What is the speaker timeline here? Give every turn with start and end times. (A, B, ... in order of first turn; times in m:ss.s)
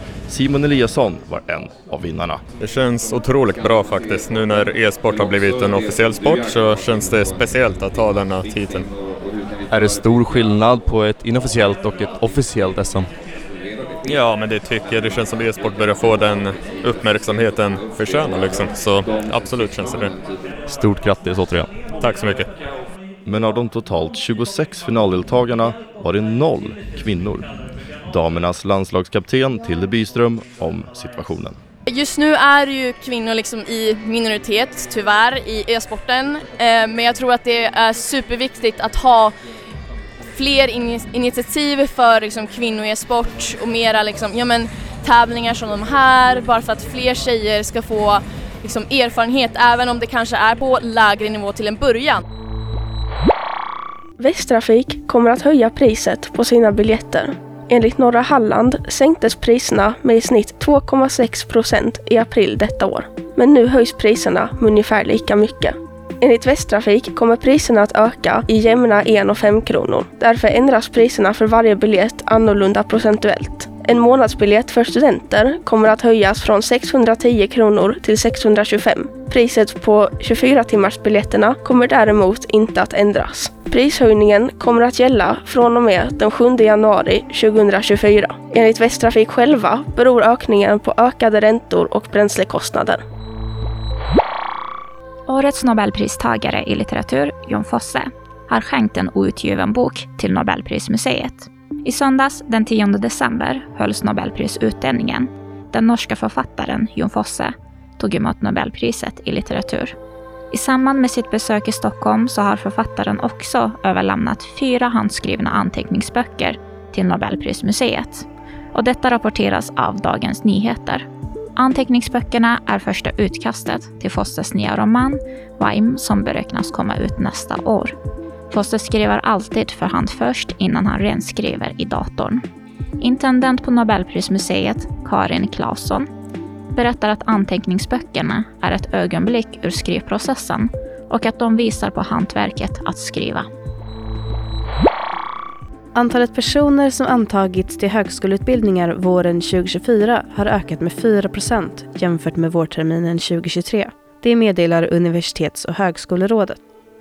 0:00.3-0:02.4 A
0:02.6-0:08.9 B
0:09.7-0:13.1 C
0:14.0-0:20.1 B
0:20.6-0:21.7 C
0:22.0-0:22.5 B
0:23.2-0:27.5 A
0:28.1-0:31.6 A
0:31.9-0:39.3 D
0:40.3-0:52.2 D
0:54.2-1:33.0 E
1:35.3-1:49.9 F
1:50.5-2:07.9 F
2:08.5-2:12.4 F
2:13.0-2:16.1 F
2:16.7-2:23.5 F
2:25.9-2:36.6 G